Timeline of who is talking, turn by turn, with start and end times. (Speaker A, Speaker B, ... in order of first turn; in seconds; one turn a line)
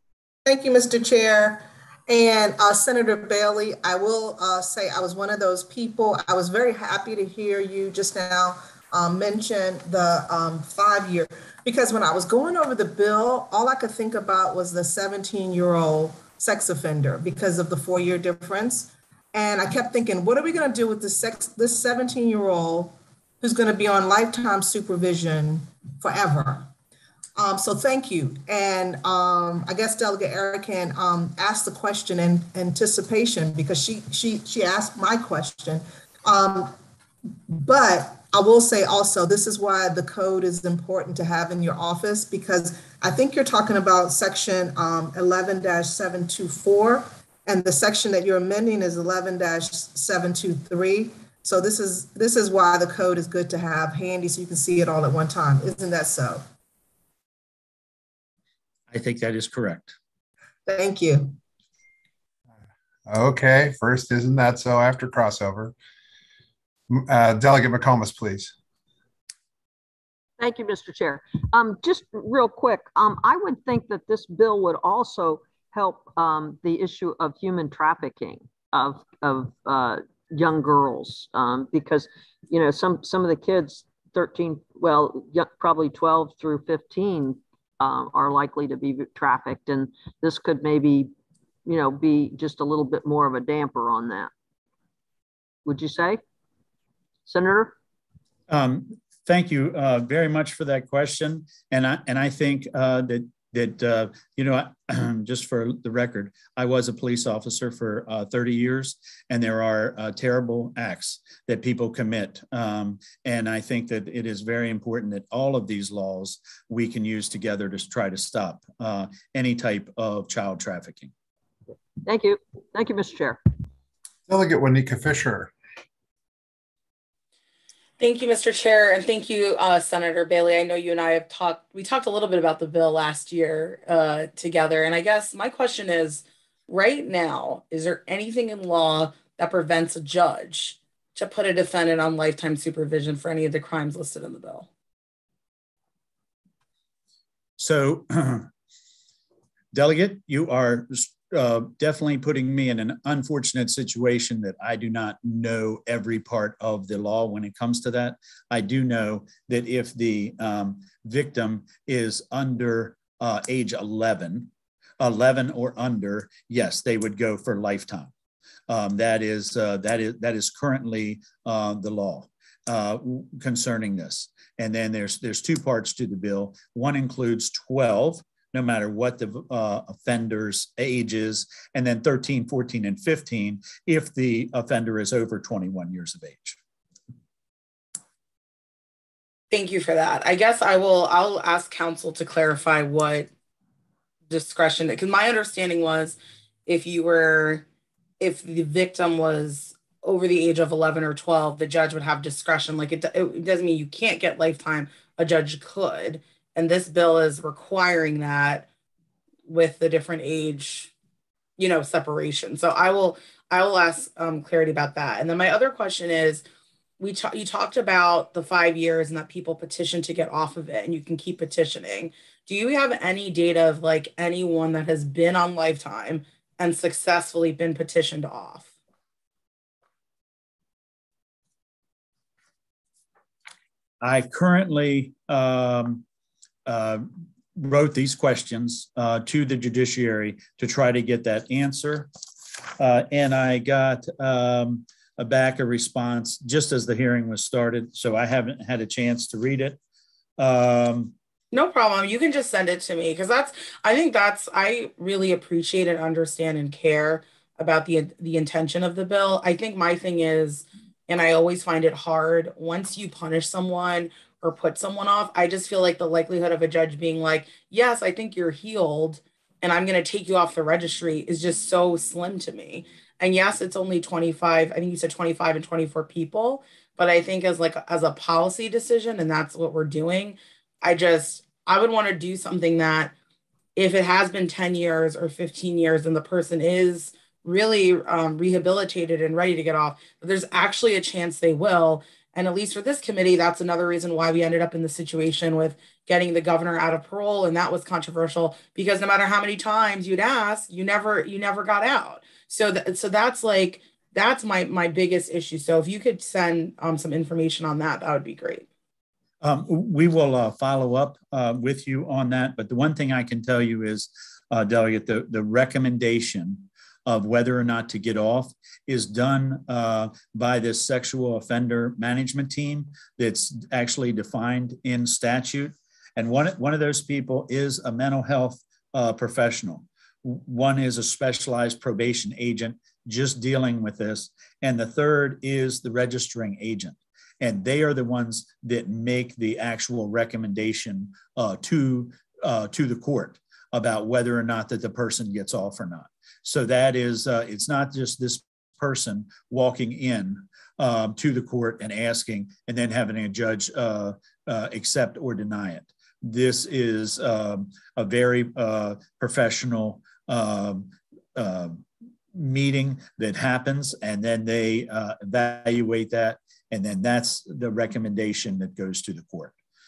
Speaker A: 0.5-26.7
Speaker A: 27.4-36.8
Speaker A: 37.5-56.4
Speaker B: 58.9-59.9
Speaker A: 60.7-61.4
Speaker C: 63.1-65.7
Speaker C: 66.9-68.5
Speaker D: 70.4-91.1
Speaker D: 91.7-94.3
Speaker D: 95.7-96.2
Speaker D: 97.3-97.7
Speaker B: 98.5-121.1
Speaker D: 122.0-123.4
Speaker C: 124.3-125.5
Speaker E: 128.0-144.7
Speaker B: 147.6-148.5
Speaker B: 149.7-168.1
Speaker B: 168.7-186.6
Speaker E: 189.5-193.3
Speaker E: 194.3-197.6
Speaker E: 198.2-208.7
Speaker E: 209.4-210.9
Speaker E: 211.6-216.4
Speaker E: 217.0-228.7
Speaker B: 234.0-236.0
Speaker B: 236.7-242.1
Speaker B: 242.8-249.8
Speaker B: 250.4-251.1
Speaker E: 251.5-283.1
Speaker E: 283.8-308.6
Speaker B: 309.4-369.5